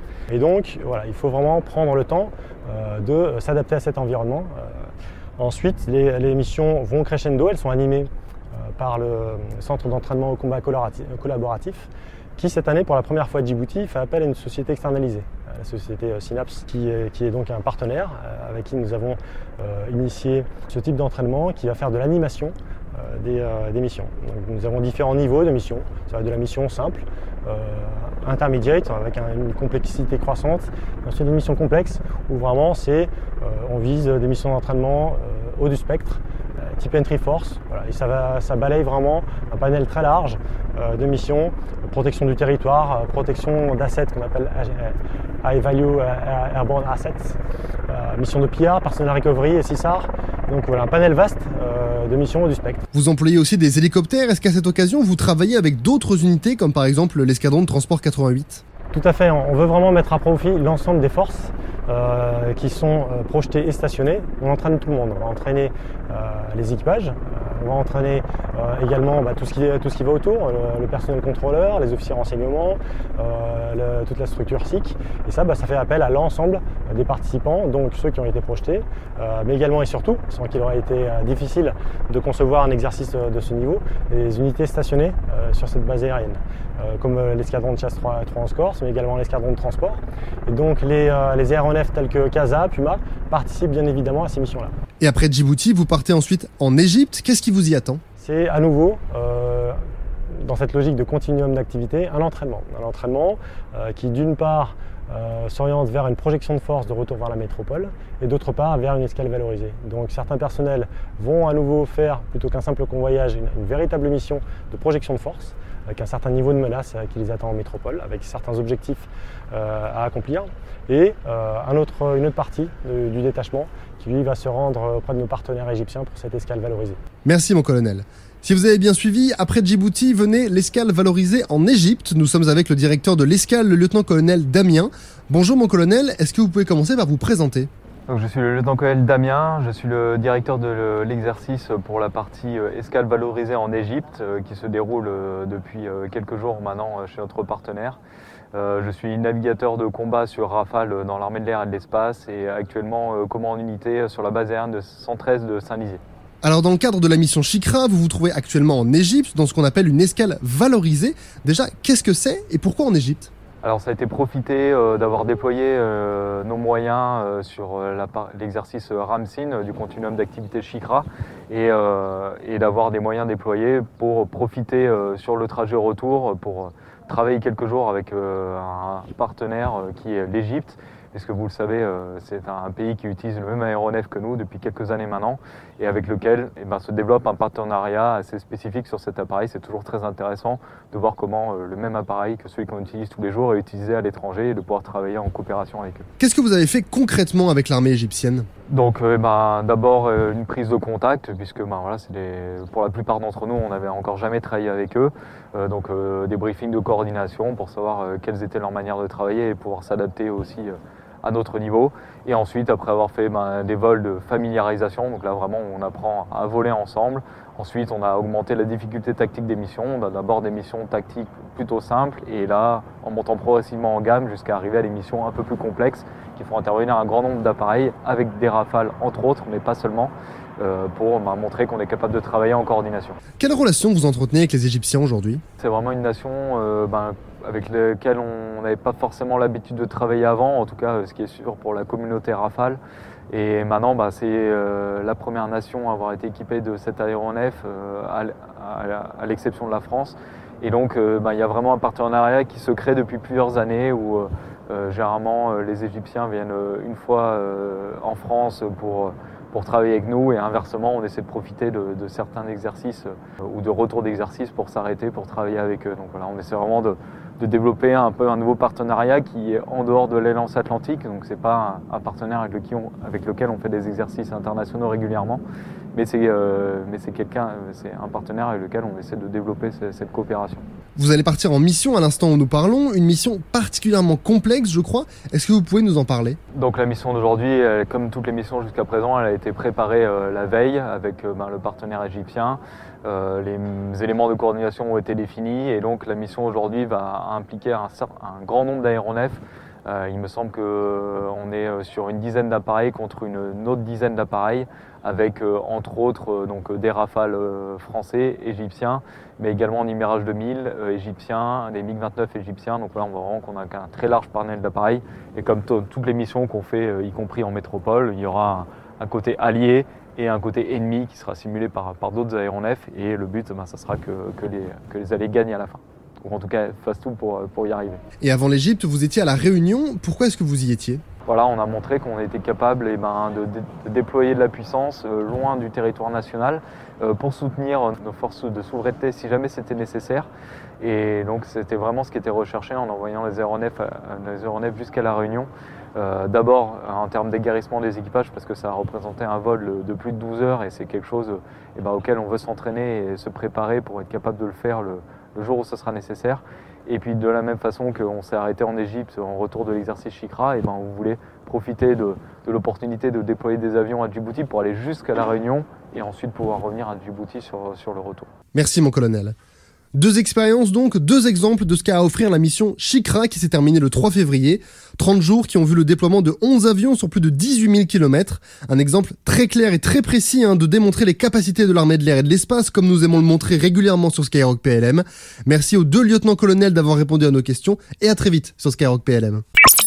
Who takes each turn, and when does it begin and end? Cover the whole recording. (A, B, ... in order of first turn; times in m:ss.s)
0:00.3-0:52.8 A
0:52.9-0:58.6 B
0:58.9-1:34.8 A
1:35.0-1:38.0 B
1:38.2-1:39.8 A
1:40.3-2:07.0 A
2:07.2-2:17.7 B
2:18.1-2:28.0 C
2:28.5-2:36.0 C
2:36.4-2:43.3 B
2:43.6-3:16.1 C
3:16.2-3:18.5 B
3:18.7-3:53.2 C
3:53.4-3:55.4 B
3:55.6-4:35.4 C
4:35.9-4:40.7 C
4:41.0-4:46.4 B
4:46.5-5:28.0 C
5:28.2-5:31.0 B
5:31.2-5:40.3 C
5:40.8-6:08.3 C
6:08.5-6:09.4 B
6:10.0-6:29.4 B